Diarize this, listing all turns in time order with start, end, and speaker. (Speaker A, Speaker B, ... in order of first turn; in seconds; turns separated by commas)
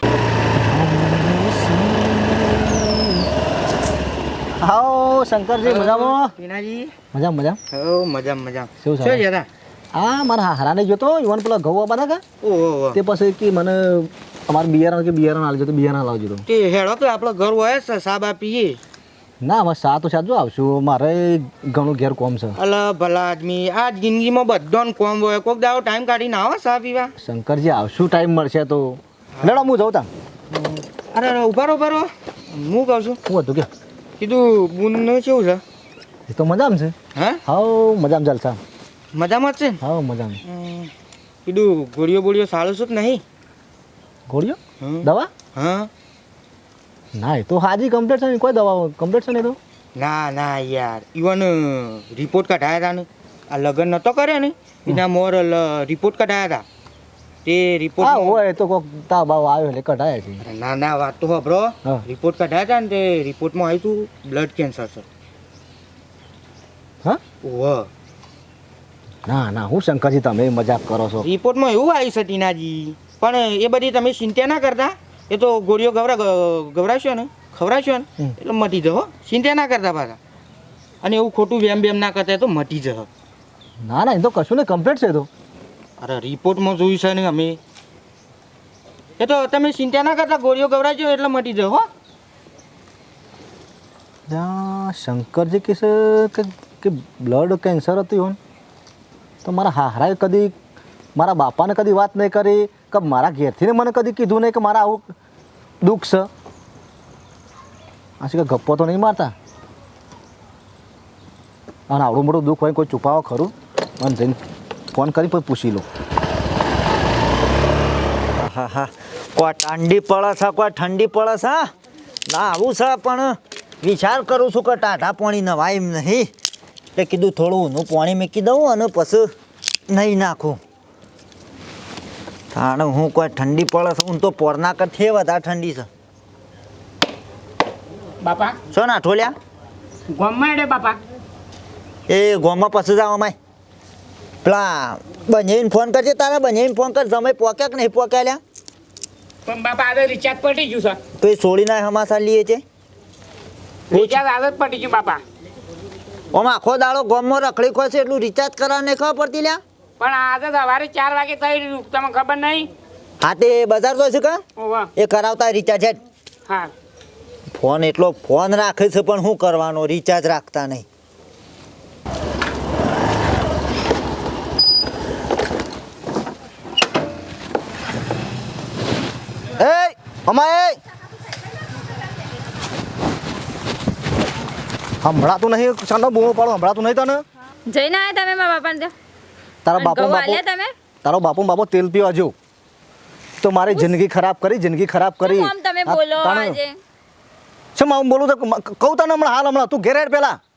Speaker A: 0.6-2.8, Speaker A: 4.6-6.3, Speaker B: 5.6-6.9, Speaker A: 7.1-7.6, Speaker B: 7.7-9.5, Speaker A: 8.8-9.2, Speaker A: 9.9-12.2, Speaker B: 12.4-13.0, Speaker A: 12.9-16.4, Speaker B: 16.5-18.8, Speaker A: 19.4-22.5, Speaker B: 22.6-27.1, Speaker A: 27.2-30.1, Speaker B: 29.4-29.7, Speaker B: 30.5-33.2, Speaker A: 33.2-33.7, Speaker B: 34.2-35.6, Speaker A: 36.3-38.6, Speaker B: 37.1-37.4, Speaker B: 39.1-39.8, Speaker A: 39.8-40.4, Speaker B: 40.5-40.9, Speaker B: 41.5-43.2, Speaker A: 44.3-45.3, Speaker B: 44.8-45.9, Speaker A: 47.1-49.6, Speaker B: 50.0-56.6, Speaker B: 57.5-58.4, Speaker A: 58.0-60.4, Speaker B: 60.4-65.1, Speaker B: 67.4-67.9, Speaker A: 69.3-71.3, Speaker B: 71.2-80.2, Speaker B: 81.0-83.1, Speaker A: 83.8-85.3, Speaker B: 86.0-87.6, Speaker B: 89.2-91.9, Speaker A: 94.3-98.4, Speaker A: 99.4-100.5, Speaker A: 101.2-105.1, Speaker A: 105.8-106.3, Speaker A: 108.2-109.3, Speaker A: 111.9-114.4, Speaker A: 114.9-115.9, Speaker C: 118.4-121.7, Speaker C: 122.3-126.3, Speaker C: 127.0-129.3, Speaker C: 129.9-130.6, Speaker C: 132.5-135.9, Speaker D: 138.2-138.6, Speaker C: 138.7-139.4, Speaker D: 140.1-141.0, Speaker C: 142.1-143.3, Speaker C: 144.4-148.4, Speaker D: 149.5-151.0, Speaker C: 151.2-152.6, Speaker D: 153.9-155.2, Speaker C: 153.9-154.2, Speaker C: 156.3-159.6, Speaker D: 160.0-162.7, Speaker C: 163.2-164.4, Speaker D: 164.6-164.9, Speaker C: 165.0-166.0, Speaker C: 167.5-170.8, Speaker A: 179.6-180.8, Speaker A: 185.0-187.2, Speaker E: 187.7-188.9, Speaker A: 189.7-190.4, Speaker E: 189.8-190.7, Speaker A: 191.0-192.3, Speaker A: 193.4-196.6, Speaker E: 193.7-194.0, Speaker E: 195.2-196.8, Speaker A: 197.8-200.4